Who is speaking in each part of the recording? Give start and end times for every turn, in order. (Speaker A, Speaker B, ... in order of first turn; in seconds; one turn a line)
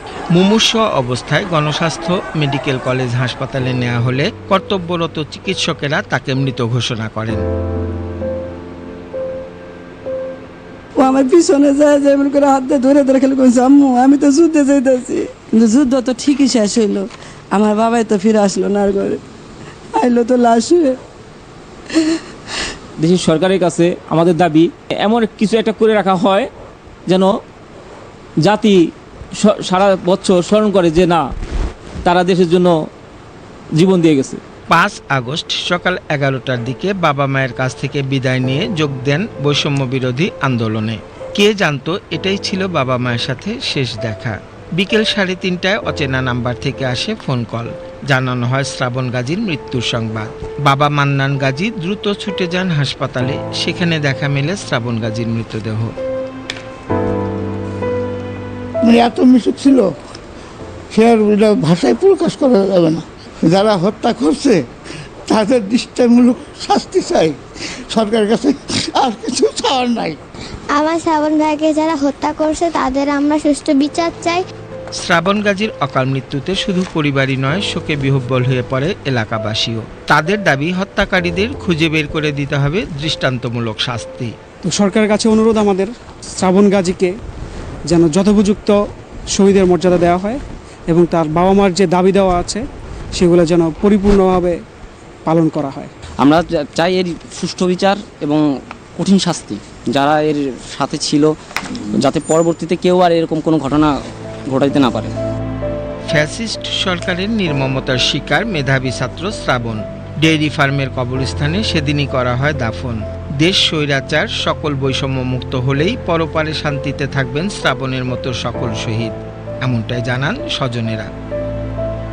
Speaker A: 0.3-7.4
Speaker B: 11.0-19.2
Speaker B: 20.0-21.0
Speaker C: 23.0-26.5
Speaker C: 27.1-27.3
Speaker C: 28.4-28.8
Speaker C: 29.4-31.2
Speaker C: 32.0-32.7
Speaker C: 33.8-34.4
Speaker A: 34.7-55.9
Speaker D: 58.8-59.9
Speaker D: 60.9-64.6
Speaker D: 65.3-70.2
Speaker E: 70.7-74.4
Speaker A: 75.0-84.3
Speaker F: 84.6-87.1
Speaker F: 87.9-88.8
Speaker F: 89.3-92.6
Speaker F: 93.2-94.6
Speaker F: 95.3-95.9
Speaker G: 96.2-98.4
Speaker G: 99.0-101.3
Speaker G: 102.0-103.9
Speaker G: 104.5-105.1
Speaker A: 106.1-121.1